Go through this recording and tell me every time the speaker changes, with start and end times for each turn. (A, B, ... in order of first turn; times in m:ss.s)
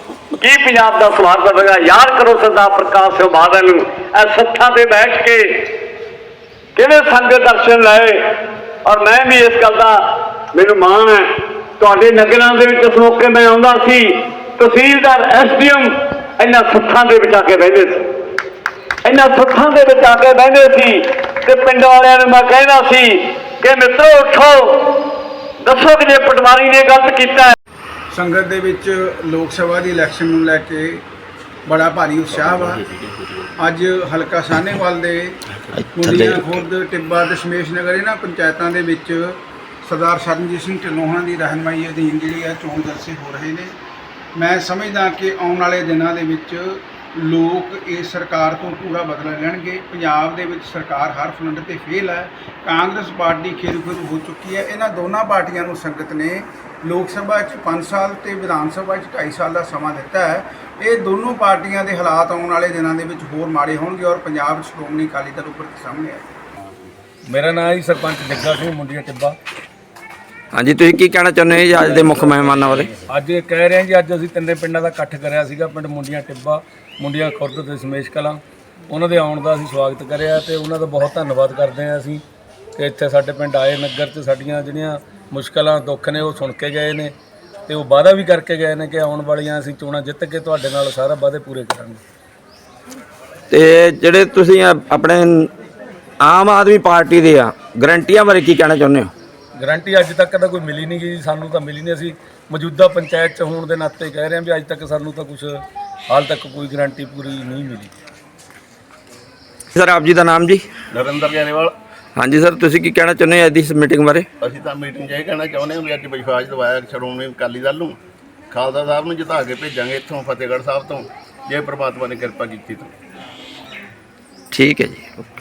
0:00.4-0:05.8 A
0:06.8-0:18.1 A
0:19.0-0:27.6 A
0:28.1-0:31.0 B
0:31.6-0:32.9 B
0:33.6-0:35.4 B
0:35.7-0:36.5 C
0:35.9-0:43.7 B
0:44.3-1:06.2 B
1:07.3-1:09.4 D
1:10.5-1:12.9 C
1:12.9-1:22.2 D
1:22.8-1:27.1 D
1:27.7-1:32.0 D
1:33.5-1:35.5 C
1:36.2-1:39.1 C
1:39.6-1:47.9 D
1:49.7-1:50.6 C
1:50.9-1:51.7 E
1:52.2-1:54.3 C
1:54.4-1:58.0 E
1:58.5-2:02.9 E
2:04.5-2:05.2 C